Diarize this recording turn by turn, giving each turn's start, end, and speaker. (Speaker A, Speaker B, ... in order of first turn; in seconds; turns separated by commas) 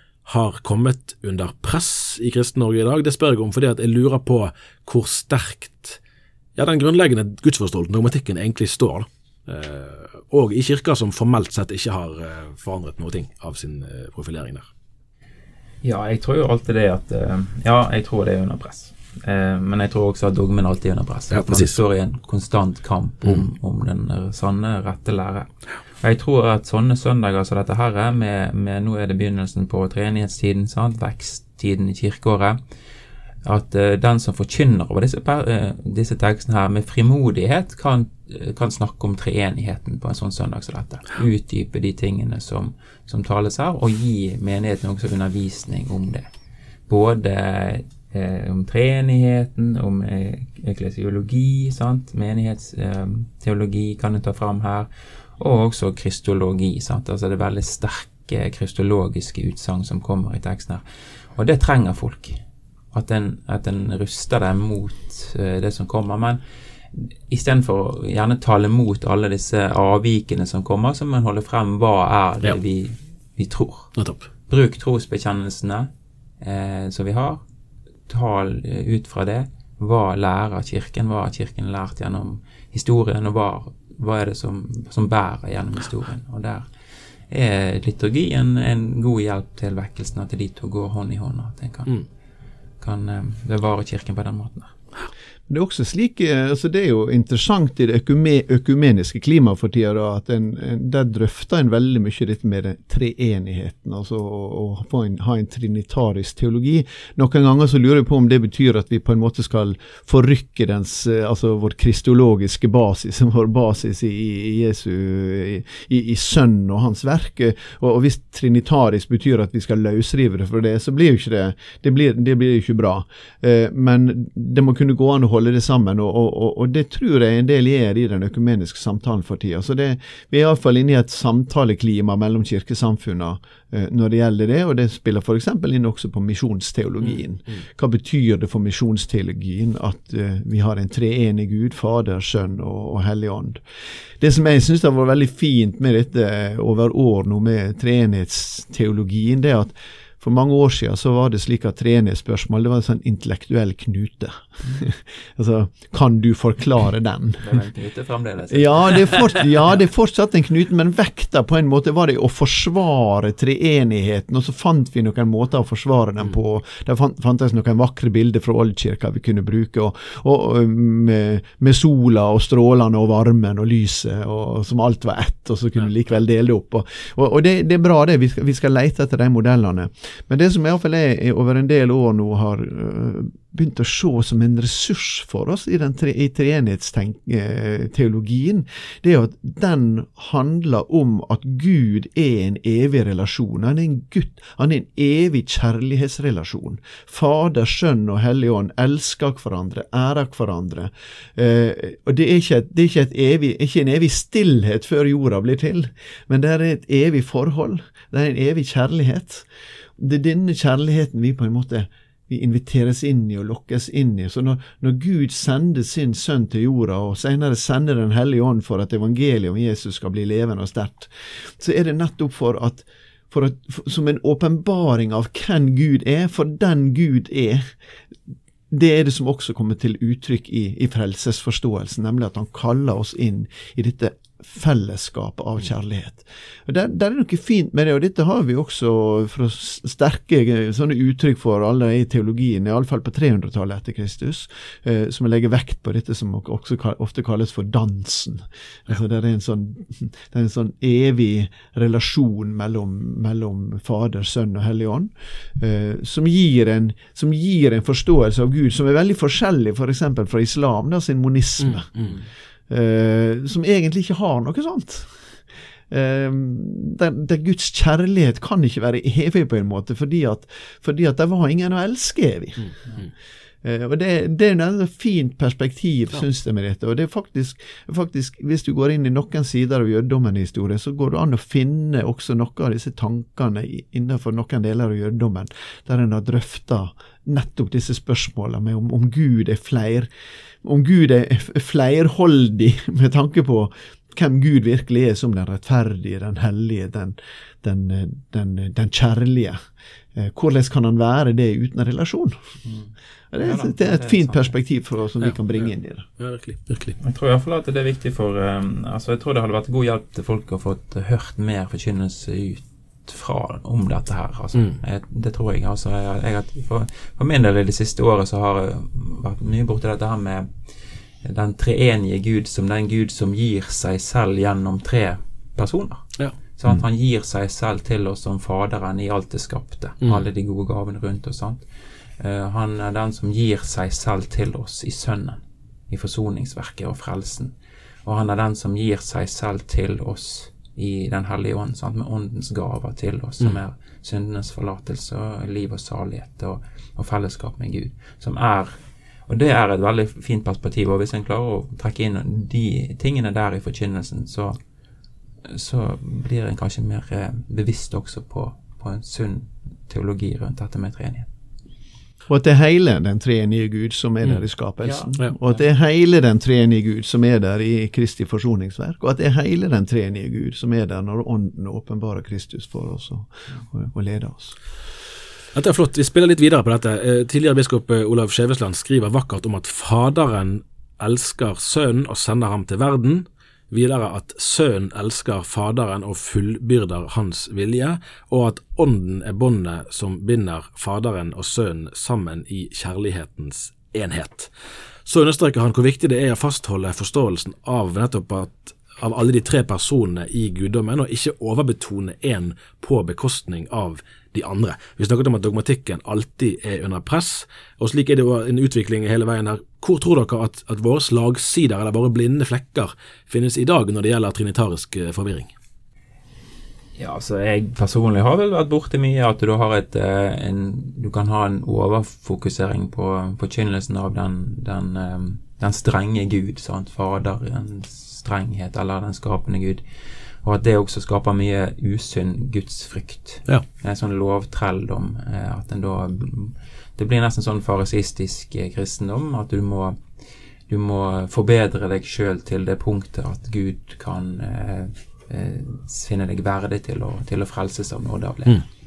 Speaker A: 0.2-6.0, Speaker A: 6.5-14.7, Speaker B: 15.8-32.6, Speaker A: 21.3-21.8, Speaker B: 33.4-46.3, Speaker B: 46.9-60.8, Speaker B: 61.3-62.4, Speaker B: 62.9-66.4, Speaker B: 66.9-73.9, Speaker A: 74.0-74.2, Speaker B: 74.5-77.4, Speaker B: 78.1-86.7, Speaker B: 87.3-92.0, Speaker B: 92.8-94.7, Speaker C: 95.5-157.6, Speaker B: 157.4-159.4, Speaker C: 158.5-227.7, Speaker C: 228.7-261.9, Speaker A: 261.6-262.1, Speaker C: 262.7-273.0, Speaker C: 273.6-290.1, Speaker C: 290.6-299.6, Speaker C: 300.1-302.4, Speaker B: 302.6-304.6, Speaker C: 303.3-306.1, Speaker A: 306.2-307.0, Speaker B: 307.0-320.5, Speaker A: 314.5-314.8, Speaker B: 321.2-331.6, Speaker A: 326.2-326.8, Speaker B: 332.2-337.5, Speaker B: 338.0-354.6, Speaker B: 355.4-361.3, Speaker C: 362.3-374.6, Speaker B: 364.8-365.6, Speaker A: 375.5-394.5, Speaker A: 395.0-415.5, Speaker B: 417.0-429.8, Speaker B: 430.4-440.0, Speaker B: 440.7-448.6